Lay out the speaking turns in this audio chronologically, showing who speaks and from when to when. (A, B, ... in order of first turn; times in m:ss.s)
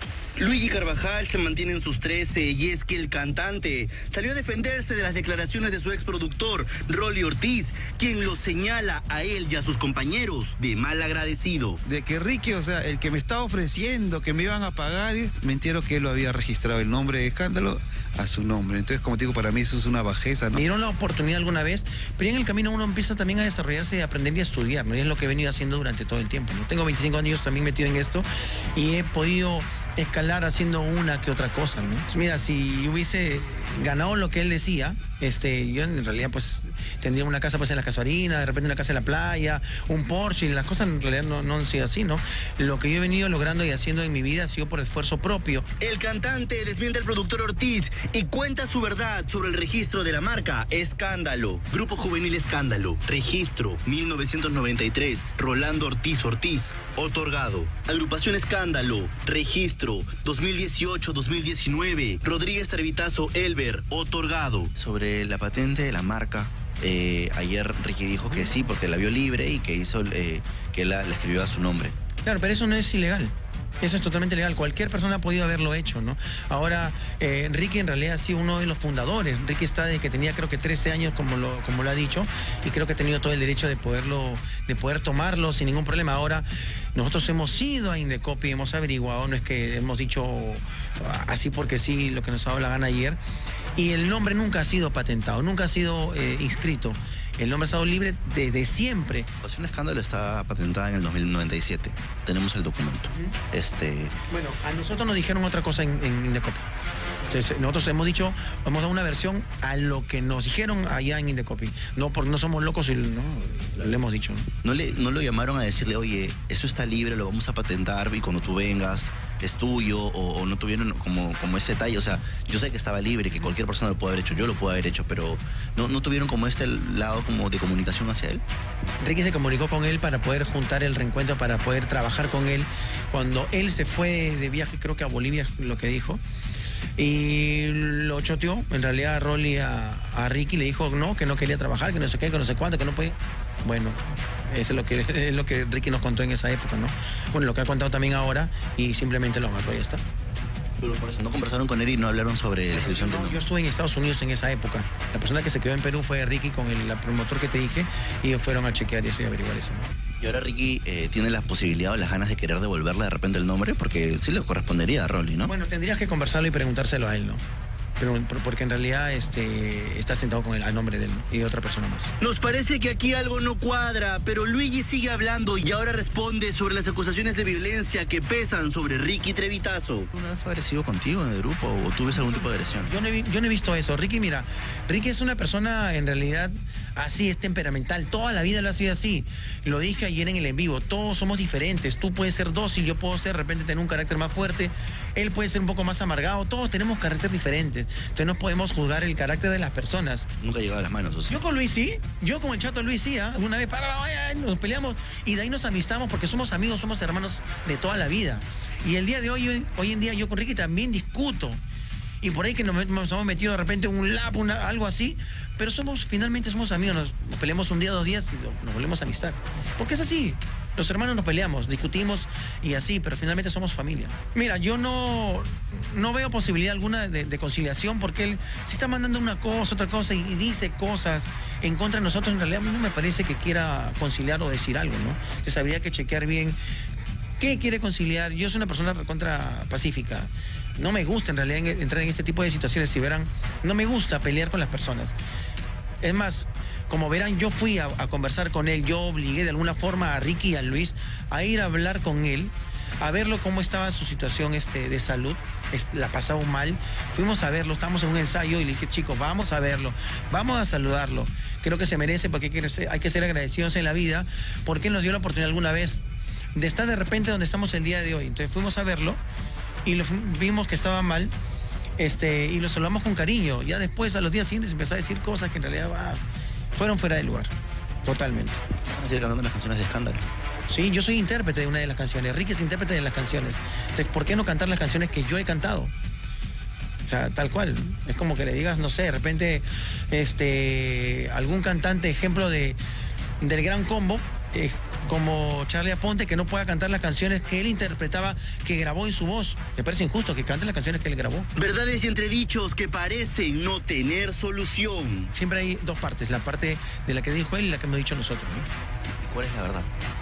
0:00.4-0:11.8 A
0:11.8-0:20.6 B
0:20.5-0:45.6 C
0:45.8-1:04.7 A
1:04.8-1:11.9 D
1:12.2-1:33.2 C
1:33.8-1:39.3 C
1:39.4-1:44.1 D
1:43.1-1:43.4 C
1:44.3-1:46.7 C
1:47.3-1:54.5 C
1:54.6-2:08.4 D
2:09.0-2:16.2 C
2:17.0-2:30.0 C
2:30.8-2:33.4 D
2:32.7-2:39.9 C
2:40.2-2:45.5 D
2:45.4-2:47.4 C
2:48.0-2:52.1 C
2:52.2-3:00.1 A
3:00.1-3:02.9 D
3:02.8-3:20.3 C
3:20.4-3:21.4 D
3:21.3-3:31.6 C
3:32.2-3:56.6 C
3:57.4-4:05.2 C
4:06.0-4:26.0 C
4:26.5-4:29.2 C
4:29.8-4:31.3 C
4:32.0-4:36.2 C
4:36.7-4:37.5 C
4:38.0-4:38.6 C
4:38.8-4:40.3 D
4:40.7-4:45.9 C
4:47.0-4:52.8 C
4:53.4-5:01.5 C
5:01.6-5:05.3 A
5:05.3-5:08.7 C
5:09.2-5:09.9 D